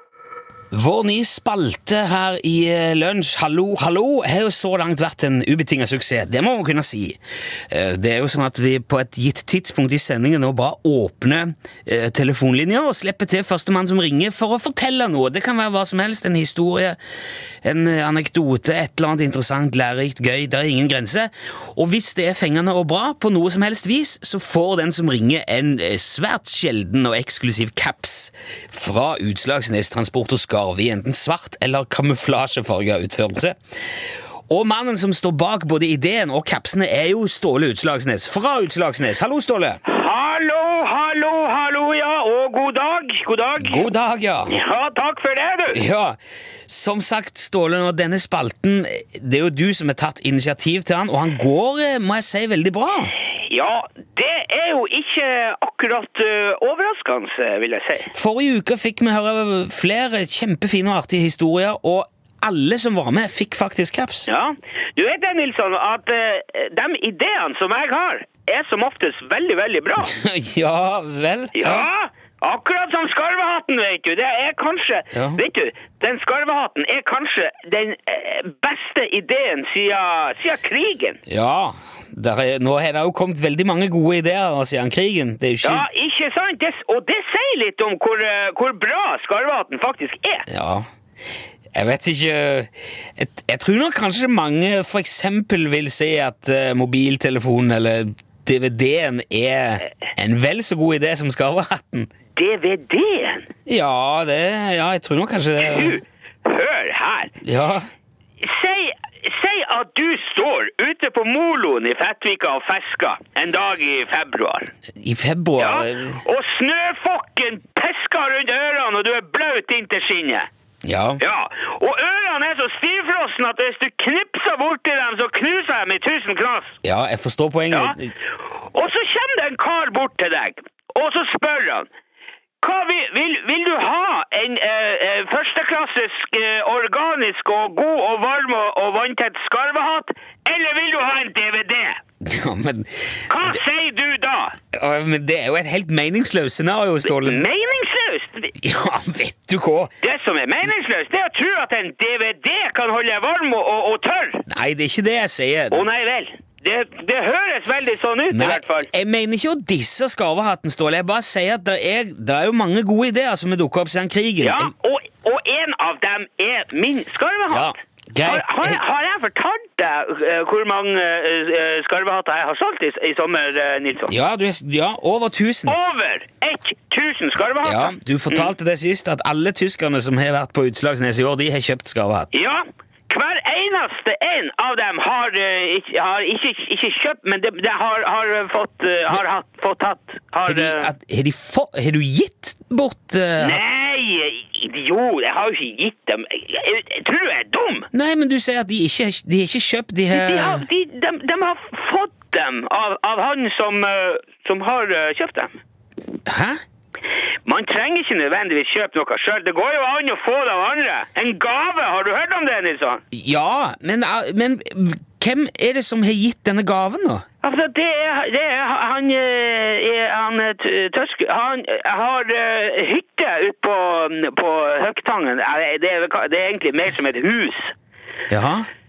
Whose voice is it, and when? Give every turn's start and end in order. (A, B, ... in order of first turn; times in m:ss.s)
0:00.7-0:07.2 A
0:07.7-0:17.0 A
0:17.6-0:33.6 A
0:34.5-0:39.8 A
0:39.8-0:43.9 B
0:43.6-0:44.6 A
0:44.5-0:45.8 B
0:45.7-0:53.1 A
0:53.4-0:58.1 B
0:58.1-1:04.3 A
1:04.3-1:10.1 B
1:10.0-1:11.9 A
1:11.6-1:21.2 B
1:15.1-1:15.4 A
1:21.3-1:25.8 A
1:25.6-1:30.5 B
1:30.5-1:30.8 A
1:31.8-1:42.1 A
1:42.4-1:43.5 B
1:43.7-1:46.0 A
1:45.6-1:47.4 B
1:47.4-1:47.9 A
1:48.4-1:54.7 B
1:55.0-1:56.2 A
1:55.6-2:00.5 B
2:00.8-2:01.2 A
2:01.2-2:06.8 B
2:06.8-2:08.1 A
2:07.7-2:08.0 B
2:08.7-2:11.9 B
2:12.6-2:22.0 B
2:22.2-2:23.5 A
2:23.3-2:24.6 B
2:24.7-2:27.4 A
2:27.0-2:28.5 B
2:28.6-2:29.9 A
2:30.0-2:34.4 B
2:34.5-2:35.8 A
2:35.7-2:38.9 B
2:38.3-2:44.7 A
2:44.4-2:54.1 B
2:47.5-2:48.8 A
2:54.1-2:55.8 A
2:55.7-2:58.5 B
2:57.6-3:02.3 A
3:02.3-3:10.9 B
3:10.4-3:13.6 A
3:13.4-3:17.9 B
3:17.9-3:20.6 A
3:20.1-3:25.6 B
3:26.2-3:26.6 A
3:27.4-3:33.0 B
3:33.1-3:37.2 A
3:37.4-3:47.7 B
3:48.3-3:48.7 A